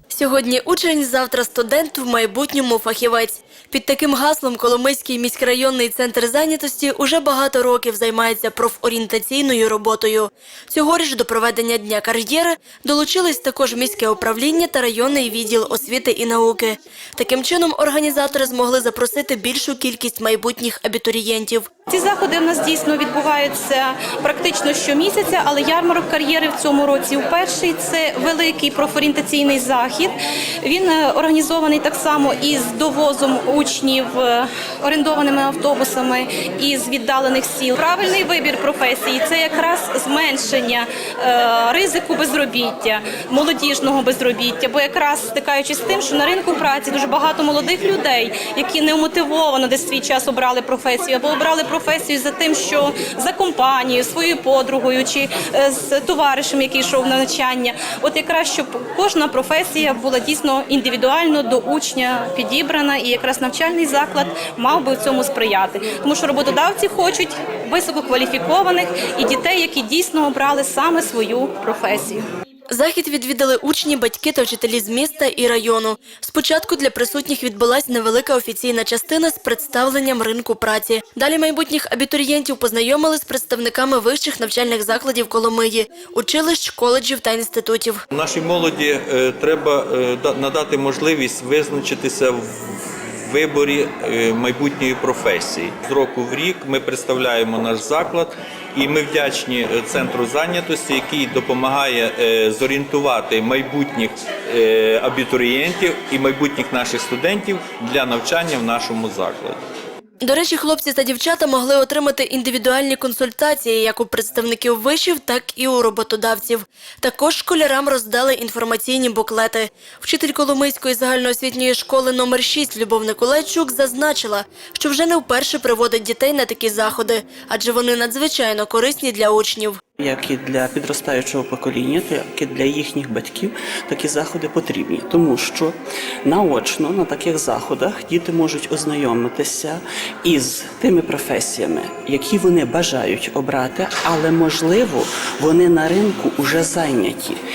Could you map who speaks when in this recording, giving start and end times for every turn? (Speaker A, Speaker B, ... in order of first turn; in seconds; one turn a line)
Speaker A: 0.1-21.7
Speaker B: 21.9-72.2
Speaker A: 72.7-88.0
Speaker C: 88.1-109.6
Speaker A: 110.2-129.8
Speaker D: 130.0-135.7
Speaker D: 136.2-147.4